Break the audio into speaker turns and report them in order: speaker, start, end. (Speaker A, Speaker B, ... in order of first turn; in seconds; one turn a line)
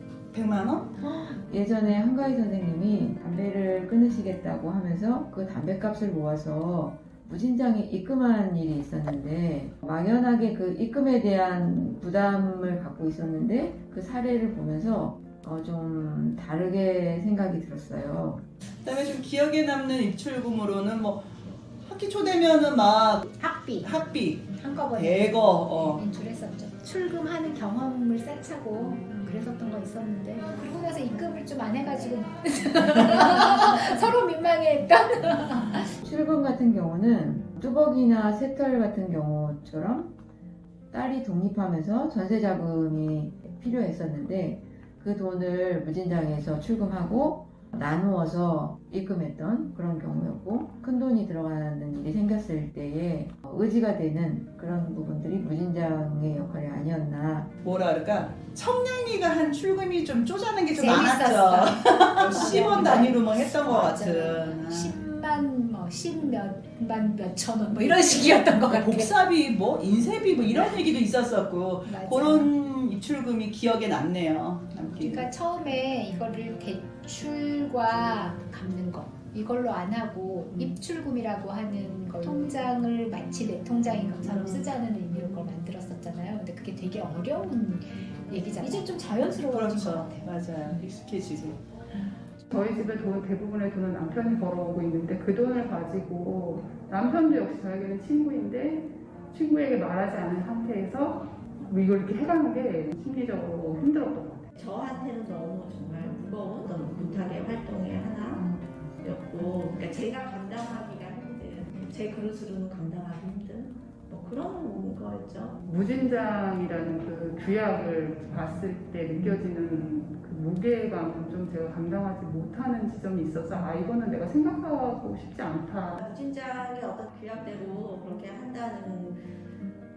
Speaker A: 0.3-0.9
Speaker B: 1.0-1.4
Speaker C: 1.5-18.4
Speaker A: 18.8-23.2
Speaker B: 23.2-23.9
Speaker A: 23.8-24.5
Speaker B: 24.5-36.0
Speaker A: 25.0-26.0
Speaker C: 36.0-40.1
Speaker C: 40.9-57.5
Speaker A: 57.6-64.9
Speaker B: 60.7-69.1
Speaker A: 68.7-75.3
Speaker B: 71.9-72.5
Speaker B: 75.0-90.3
Speaker A: 84.4-84.6
Speaker A: 89.5-91.6
Speaker D: 92.5-104.5
Speaker E: 104.6-115.6
Speaker D: 115.7-126.0
Speaker E: 126.0-129.2